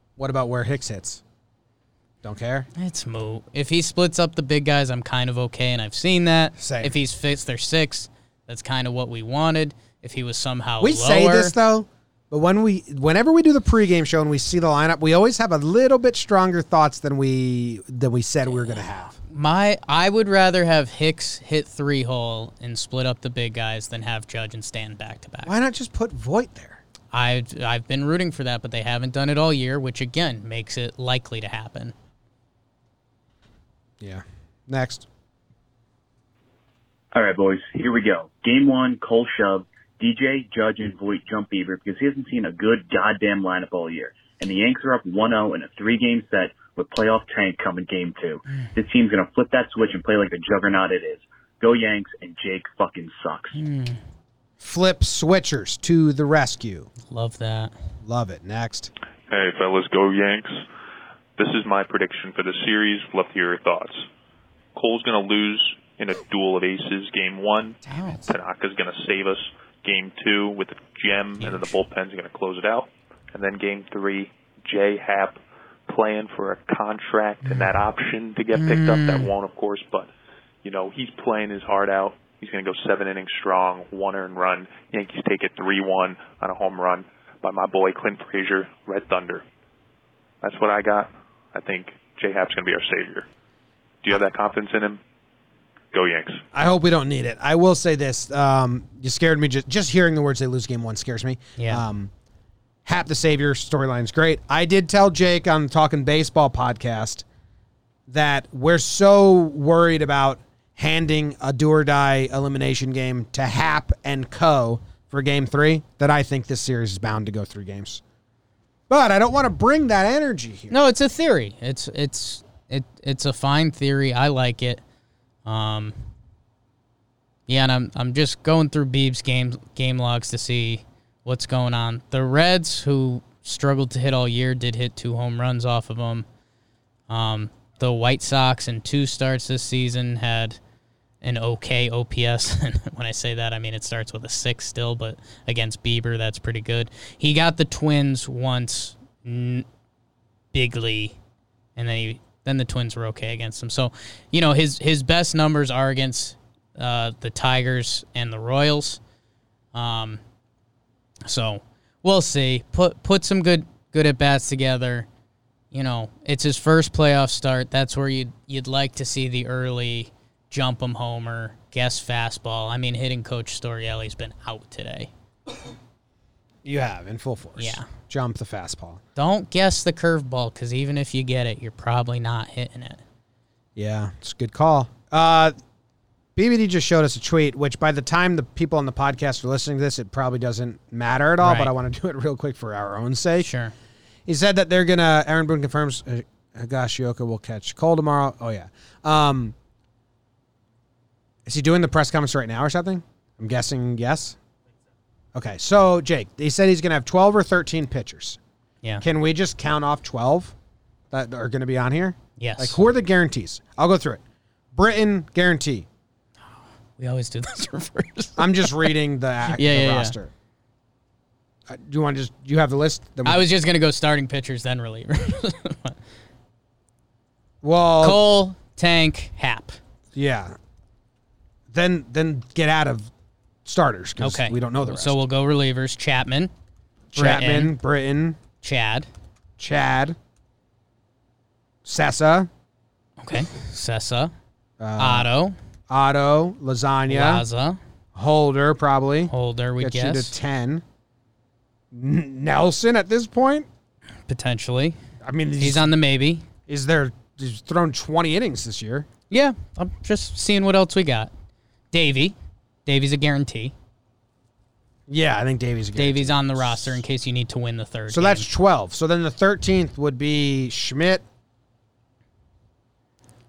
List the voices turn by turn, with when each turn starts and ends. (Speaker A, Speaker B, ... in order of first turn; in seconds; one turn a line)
Speaker A: 0.2-1.2
Speaker A: 2.2-2.7
Speaker B: 2.8-11.5
Speaker A: 6.6-7.0
Speaker A: 10.8-19.2
Speaker B: 18.5-25.5
Speaker A: 25.4-26.8
Speaker B: 27.1-31.9
Speaker A: 34.0-35.1
Speaker C: 37.1-53.6
Speaker B: 53.5-54.0
Speaker A: 54.6-56.9
Speaker B: 57.0-57.7
Speaker A: 58.0-58.9
Speaker D: 59.3-60.6
Speaker D: 61.4-64.0
Speaker D: 64.7-80.1
Speaker A: 67.8-68.3
Speaker B: 67.8-68.3
Speaker B: 71.4-71.7
Speaker B: 77.4-77.7
Speaker B: 78.5-79.3
Speaker D: 80.6-89.4
Speaker D: 90.4-93.2
Speaker D: 94.0-95.0
Speaker D: 95.9-96.4
Speaker A: 96.5-102.1
Speaker B: 101.6-101.8
Speaker A: 102.8-107.2
Speaker A: 108.1-118.0
Speaker A: 118.9-120.7
Speaker B: 120.7-124.8
Speaker B: 125.4-126.0
Speaker B: 127.5-136.2
Speaker B: 137.1-140.6
Speaker B: 141.2-149.7
Speaker B: 150.5-151.2
Speaker B: 151.8-159.0
Speaker B: 159.7-160.2
Speaker B: 161.2-165.1
Speaker B: 165.7-175.1
Speaker A: 176.6-179.0
Speaker B: 177.6-177.9
Speaker B: 179.2-183.0
Speaker A: 183.8-185.5
Speaker A: 186.3-193.5
Speaker B: 191.4-191.7
Speaker B: 193.4-193.7
Speaker A: 194.3-199.5
Speaker A: 201.4-204.4
Speaker A: 205.3-208.4
Speaker A: 209.0-210.5
Speaker A: 211.1-214.2
Speaker B: 212.4-212.8
Speaker A: 214.7-215.9
Speaker B: 217.0-218.9
Speaker A: 218.4-220.3
Speaker B: 219.5-220.2
Speaker A: 221.7-223.5
Speaker B: 223.2-226.0
Speaker A: 227.6-228.2
Speaker B: 228.0-229.8
Speaker A: 230.1-230.5
Speaker A: 231.7-233.1
Speaker A: 233.6-235.2
Speaker B: 234.2-236.5
Speaker A: 237.1-238.4
Speaker B: 237.1-237.8
Speaker B: 238.6-239.1
Speaker A: 239.6-240.2
Speaker A: 241.8-242.5
Speaker B: 243.2-244.3
Speaker A: 244.8-245.3
Speaker B: 245.0-245.6
Speaker A: 245.9-247.4
Speaker B: 247.1-247.8
Speaker A: 248.1-250.8
Speaker B: 249.3-250.3
Speaker A: 251.9-253.7
Speaker B: 254.3-255.0
Speaker A: 255.2-255.9
Speaker B: 255.6-256.4
Speaker A: 256.7-259.1
Speaker B: 259.3-261.3
Speaker B: 261.9-263.7
Speaker A: 265.1-267.0
Speaker B: 265.9-268.5
Speaker A: 268.1-271.2